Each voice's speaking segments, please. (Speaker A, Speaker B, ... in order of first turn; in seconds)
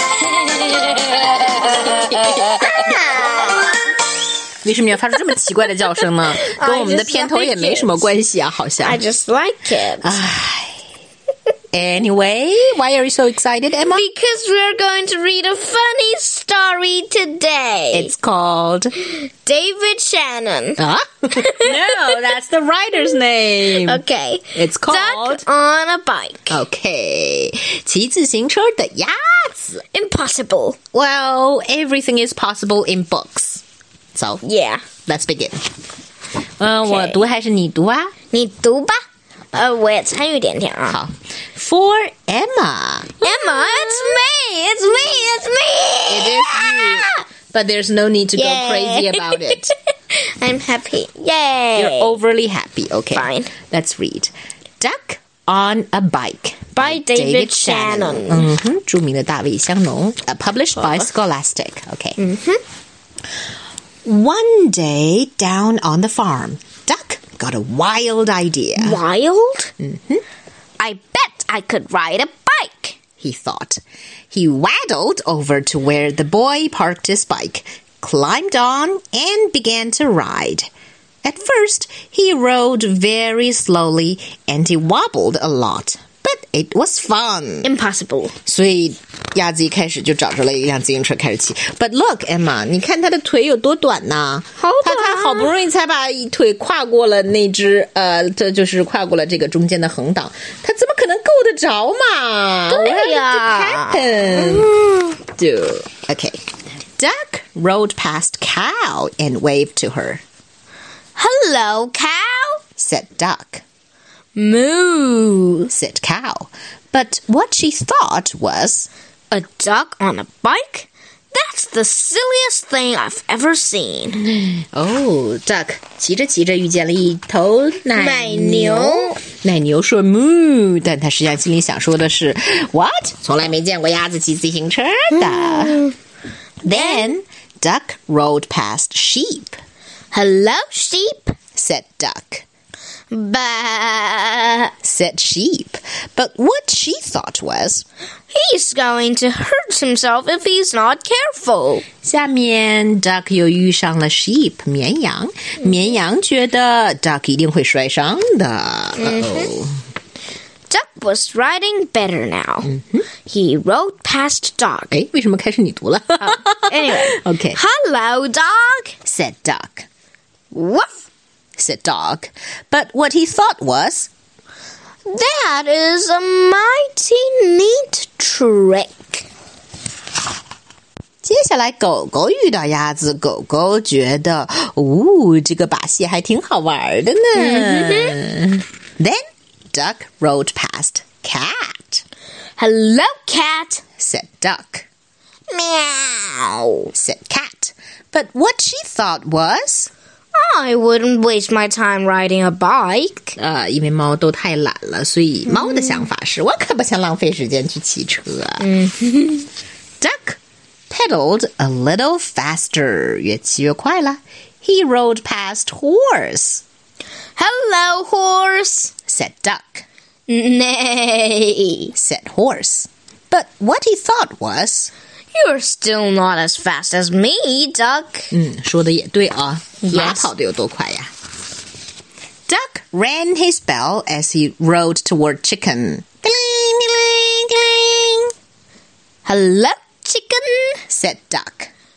Speaker A: 0.2-3.8, 6.4-8.1, 8.8-10.2, 13.8-18.1, 19.0-20.8, 21.3-22.0, 23.7-26.6, 29.9-30.8, 34.4-34.8, 36.9-37.2, 38.3-39.0, 39.5-41.0, 43.2-47.2, 48.4-52.1, 53.1-53.5, 56.8-58.5, 60.8-61.1, 62.2-62.6, 68.8-69.7, 70.8-73.0, 87.6-88.3, 94.6-95.5, 102.7-105.2, 111.2-112.6, 114.3-115.7, 119.3-124.3, 128.0-129.2, 135.2-135.9, 136.7-137.1, 140.1-141.4, 143.1-144.7, 148.3-151.9, 159.0-159.5, 160.7-165.0, 166.2-168.9, 170.5-170.9, 175.1-179.3, 187.4-188.2, 192.6-193.8, 195.5-196.9, 200.3-203.4, 205.5-206.1, 208.6-209.5, 217.4-218.9, 220.3-221.9, 225.3-228.3, 229.8-230.3, 239.2-240.8
Speaker B: 1.9-3.0, 4.6-9.0, 10.0-10.8, 11.7-14.1, 17.9-18.9, 20.8-24.0, 24.6-25.4, 26.5-29.8, 30.9-34.4, 35.1-35.6, 36.6-38.1, 40.9-44.2, 46.1-49.7, 51.8-62.2, 64.0-69.0, 69.8-70.2, 73.2-80.7, 81.2-87.7, 88.5-104.7, 105.4-106.4, 107.0-110.2, 112.8-113.6, 115.7-118.9, 124.2-135.9, 136.6-139.6, 141.6-142.4, 144.8-147.9, 152.0-159.8, 162.7-163.1, 164.9-167.6, 169.1-169.9, 171.6-174.1, 181.2-189.2, 189.7-192.0, 194.0-194.9, 196.9-199.9, 203.4-208.7, 210.0-216.6, 219.1-219.8, 221.9-224.9, 228.3-231.1, 232.5-238.3, 240.9-241.7